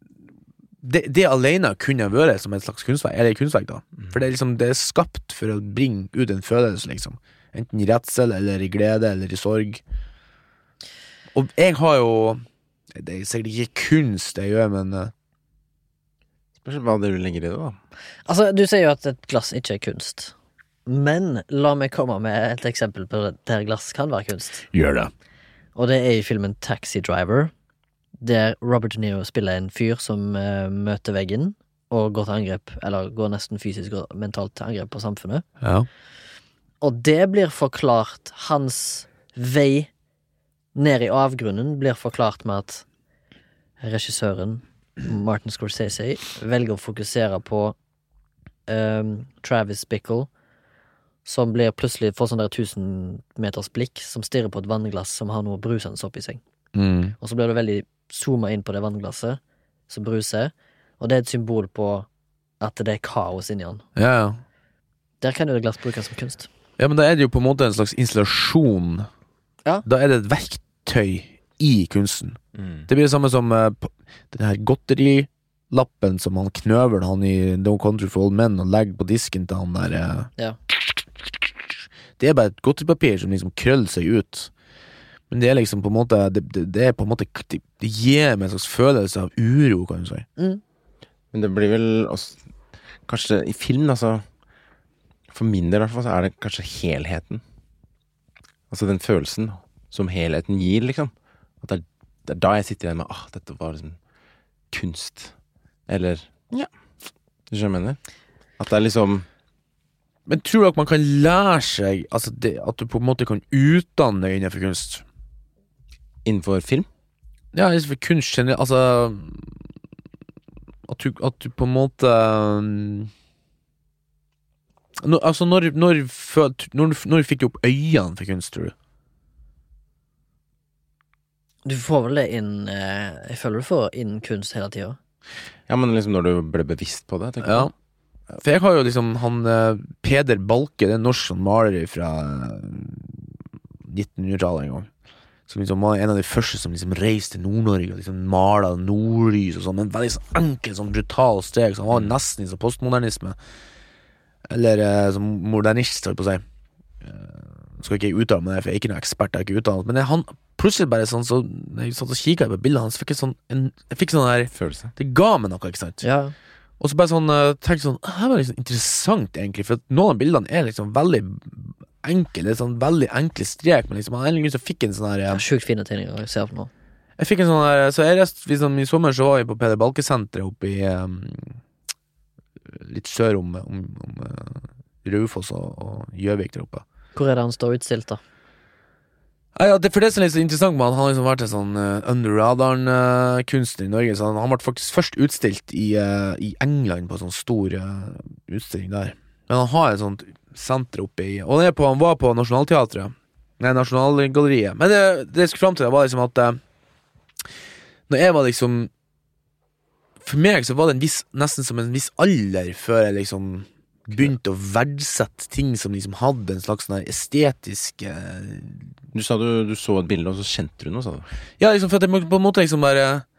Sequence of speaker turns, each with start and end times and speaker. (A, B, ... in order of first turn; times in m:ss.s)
0:00.8-0:09.8 A
0:11.3-0:12.4 A
0:12.9-0:15.1 A
0:16.6-0:17.8 B
0:18.3-0:20.3 C
0:20.8-0:24.7 C
0:24.7-0:25.1 A
0:25.7-0:27.5 C
0:28.2-0:35.4 C
0:35.6-0:35.9 A
0:36.8-0:39.9 C
0:40.7-0:42.8 C
0:43.8-0:47.7 C
0:48.7-0:50.3 C
0:51.2-0:56.4 C
0:56.7-0:57.1 A
0:57.2-1:02.1 C
1:02.6-1:03.8 C
1:04.0-1:04.4 A
1:05.2-1:06.5 C
1:06.8-1:09.1 A
1:09.8-1:20.3 A
1:12.6-1:12.8 B
1:21.2-1:21.5 A
1:22.2-1:24.5 A
1:25.3-1:30.3 A
1:31.3-1:32.4 B
1:33.1-1:34.2 B
1:35.3-1:37.4 B
1:38.7-1:44.0 B
1:44.7-1:45.3 B
1:45.9-1:46.7 B
1:47.5-1:48.0 B
1:48.6-1:49.2 B
1:50.3-1:55.0 A
1:56.2-1:56.9 B
1:57.5-1:59.6 A
2:00.9-2:03.1 A
2:05.0-2:08.7 A
2:11.6-2:15.0 C
2:15.7-2:17.7 B
2:17.4-2:17.7 A
2:18.4-2:23.3 A
2:23.8-2:24.9 A
2:25.5-2:33.4 A
2:34.5-2:36.4 A
2:37.0-2:46.0 A
2:44.5-2:44.9 B
2:46.0-2:46.3 C
2:46.8-2:55.4 A
2:55.3-2:56.7 C
2:57.2-3:01.6 A
3:02.6-3:06.8 A
3:07.1-3:08.2 C
3:09.5-3:26.6 A
3:28.1-3:28.9 A
3:30.2-3:38.9 A
3:39.1-3:41.2 B
3:41.6-3:43.2 A